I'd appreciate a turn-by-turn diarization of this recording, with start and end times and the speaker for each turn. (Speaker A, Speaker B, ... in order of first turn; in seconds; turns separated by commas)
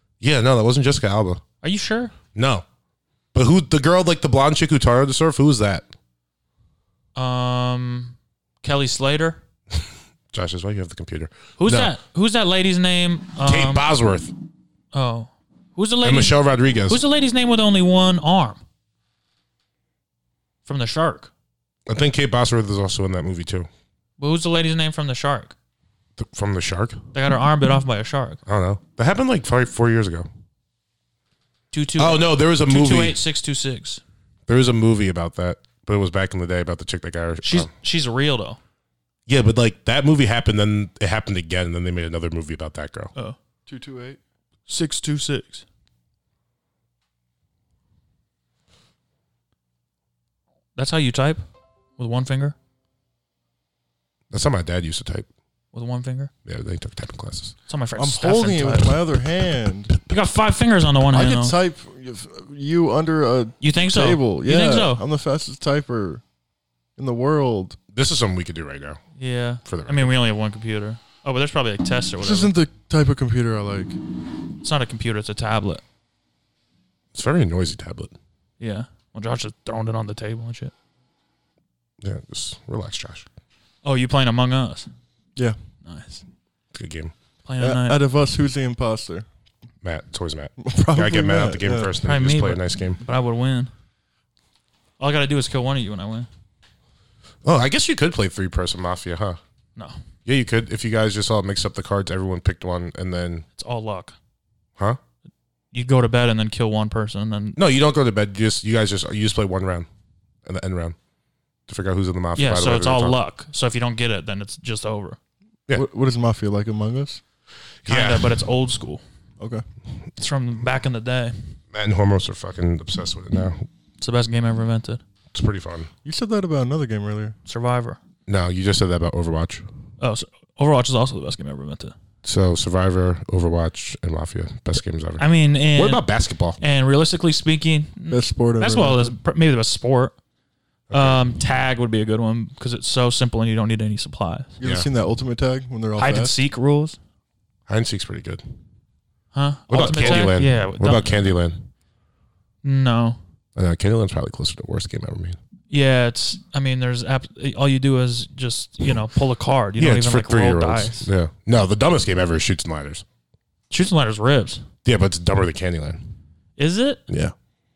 Speaker A: 0.2-1.4, Speaker B: 1.6-2.1, Speaker A: 2.4-2.6, Speaker A: 3.3-5.9, Speaker B: 7.2-9.4, Speaker A: 10.3-11.9, Speaker B: 11.6-13.8, Speaker A: 13.4-14.3, Speaker B: 14.9-18.6, Speaker A: 16.0-17.0, Speaker B: 20.6-21.3, Speaker A: 21.9-23.7, Speaker B: 24.2-25.5, Speaker A: 26.2-27.0, Speaker B: 27.1-28.4, Speaker A: 28.5-30.3, Speaker B: 31.7-34.0, Speaker A: 32.0-33.2, Speaker A: 34.5-37.7, Speaker B: 37.4-38.6, Speaker A: 39.3-43.1, Speaker C: 43.7-44.2, Speaker B: 44.7-45.6, Speaker B: 50.8-51.4, Speaker B: 52.0-52.5, Speaker A: 54.3-55.3, Speaker B: 55.7-56.3, Speaker A: 56.5-57.5, Speaker B: 57.7-59.0, Speaker C: 58.0-60.0, Speaker B: 60.1-61.6, Speaker C: 61.1-66.2, Speaker B: 63.6-65.0, Speaker C: 67.0-67.8, Speaker A: 67.9-69.0, Speaker B: 69.2-72.5, Speaker A: 69.7-70.1, Speaker C: 72.2-74.0, Speaker B: 74.6-75.8, Speaker A: 77.1-78.1, Speaker B: 78.6-80.7, Speaker A: 82.0-83.3, Speaker B: 83.8-84.9, Speaker B: 85.8-86.2, Speaker A: 86.7-87.1, Speaker B: 87.5-88.0, Speaker C: 87.6-89.3, Speaker A: 89.8-93.0, Speaker C: 90.6-91.9, Speaker B: 92.0-93.7, Speaker B: 95.0-96.3, Speaker A: 97.4-99.4, Speaker A: 100.3-103.5, Speaker B: 103.6-104.2, Speaker B: 105.7-107.6, Speaker A: 107.6-109.9, Speaker A: 110.5-111.0, Speaker A: 111.7-113.2, Speaker B: 112.4-115.2, Speaker C: 115.7-117.2, Speaker A: 117.8-118.3, Speaker B: 117.9-119.0, Speaker B: 120.2-121.3, Speaker A: 121.7-123.6, Speaker B: 124.0-125.0, Speaker A: 125.3-125.9, Speaker C: 126.0-127.4, Speaker B: 127.5-128.0, Speaker A: 128.3-129.7, Speaker B: 130.0-131.9, Speaker A: 132.2-136.6, Speaker B: 135.2-136.0, Speaker B: 136.6-140.2, Speaker C: 138.1-139.2, Speaker A: 140.9-141.2, Speaker B: 140.9-144.5, Speaker C: 144.6-146.3, Speaker A: 144.6-144.9, Speaker B: 146.0-147.0, Speaker A: 147.7-148.4, Speaker B: 149.3-151.2, Speaker A: 149.7-151.6, Speaker B: 152.6-153.2, Speaker A: 153.6-155.4, Speaker B: 155.7-161.1, Speaker A: 159.8-163.1, Speaker B: 163.7-164.6, Speaker A: 164.8-166.0, Speaker B: 166.6-167.0, Speaker A: 167.1-167.3